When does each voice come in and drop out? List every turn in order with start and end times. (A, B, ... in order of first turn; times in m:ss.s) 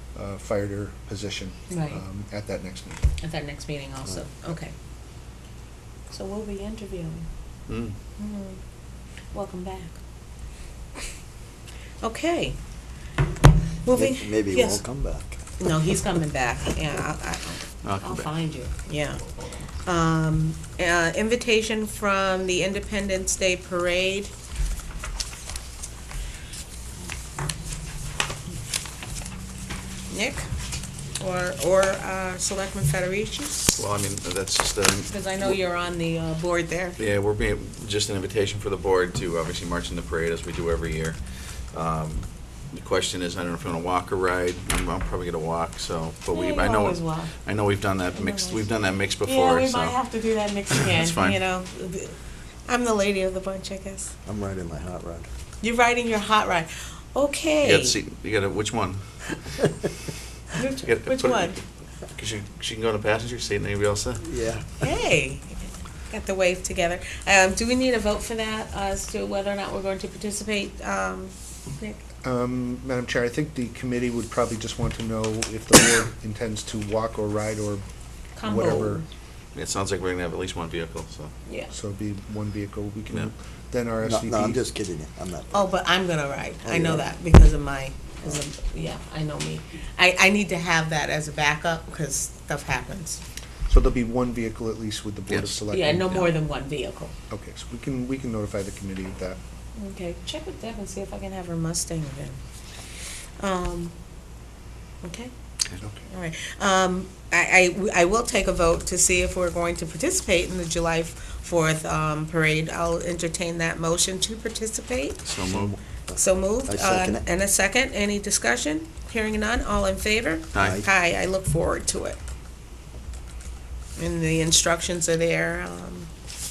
0:00.2-0:03.0 A
0:01.7-0:02.0 B
0:03.2-0:04.7 B
0:06.1-0:07.3 B
0:07.7-0:08.0 C
0:08.2-0:08.6 B
0:09.3-0:10.0 B
0:12.0-0:12.6 B
0:13.8-0:14.8 B
0:13.9-0:15.4 D
0:15.6-0:19.2 B
0:17.8-0:18.3 C
0:19.8-0:24.3 B
0:30.1-0:30.4 B
0:31.2-0:33.7 B
0:33.8-0:35.6 C
0:35.1-0:37.0 B
0:37.0-0:41.2 C
0:41.7-0:50.0 C
0:46.3-0:47.3 B
0:48.2-0:48.7 B
0:49.2-0:52.2 B
0:50.9-0:51.4 C
0:52.7-0:54.1 B
0:54.2-0:55.3 D
0:55.6-0:58.0 B
0:57.6-0:59.8 C
1:00.6-1:01.6 B
1:00.8-1:01.6 C
1:02.2-1:04.2 C
1:04.2-1:04.9 D
1:04.8-1:12.1 B
1:12.2-1:17.8 A
1:18.4-1:19.0 B
1:18.4-1:19.0 A
1:19.6-1:21.3 C
1:21.5-1:21.7 B
1:21.7-1:24.6 A
1:24.0-1:25.7 D
1:25.5-1:33.2 B
1:26.6-1:27.1 D
1:33.7-1:36.2 A
1:35.3-1:35.6 C
1:35.7-1:37.1 B
1:37.3-1:39.4 A
1:39.8-1:42.4 B
1:43.4-1:44.0 B
1:45.0-1:45.3 B
1:46.1-1:55.2 B
1:55.2-1:55.8 C
1:55.5-1:57.2 D
1:56.1-2:02.2 B
2:00.5-2:00.8 C
2:00.6-2:00.8 D
2:04.0-2:06.1 B